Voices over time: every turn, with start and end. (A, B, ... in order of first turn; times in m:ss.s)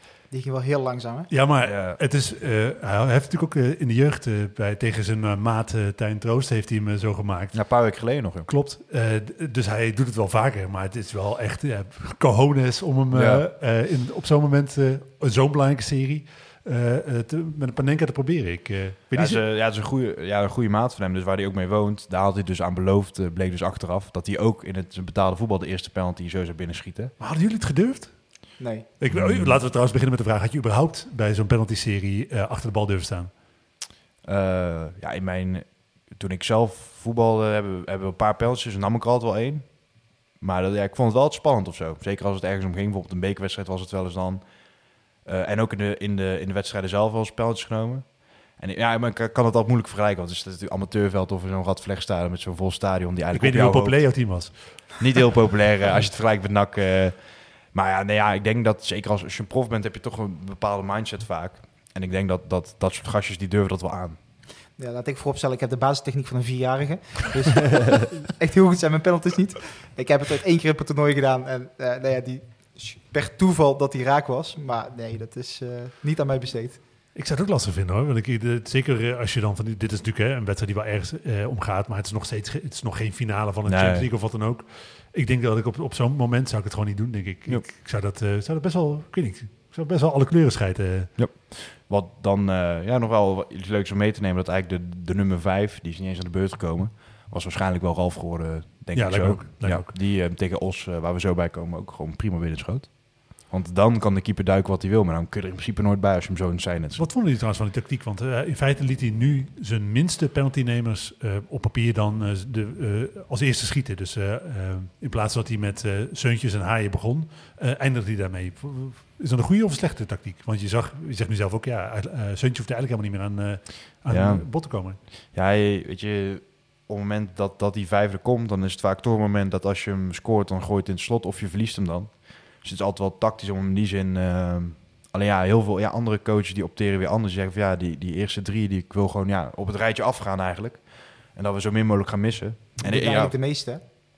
0:00.3-0:01.3 A
0:01.3-0:07.6 B
0:01.6-0:02.0 C
0:07.5-0:08.5 C
0:08.5-0:19.4 B
0:13.1-0:13.4 C
0:19.1-0:27.1 C
0:27.2-0:33.3 B
0:28.6-0:28.9 A
0:29.1-0:29.6 C
0:34.2-0:39.7 C
0:40.4-0:44.4 C
0:45.2-0:57.2 C
0:53.3-0:55.1 B
0:57.7-1:04.2 C
1:04.8-1:16.8 A
1:17.2-1:31.1 B
1:23.6-1:24.1 C
1:31.2-1:47.1 C
1:39.0-1:39.9 B
1:47.0-2:05.0 B
2:04.1-2:23.4 C
2:22.8-2:23.8 A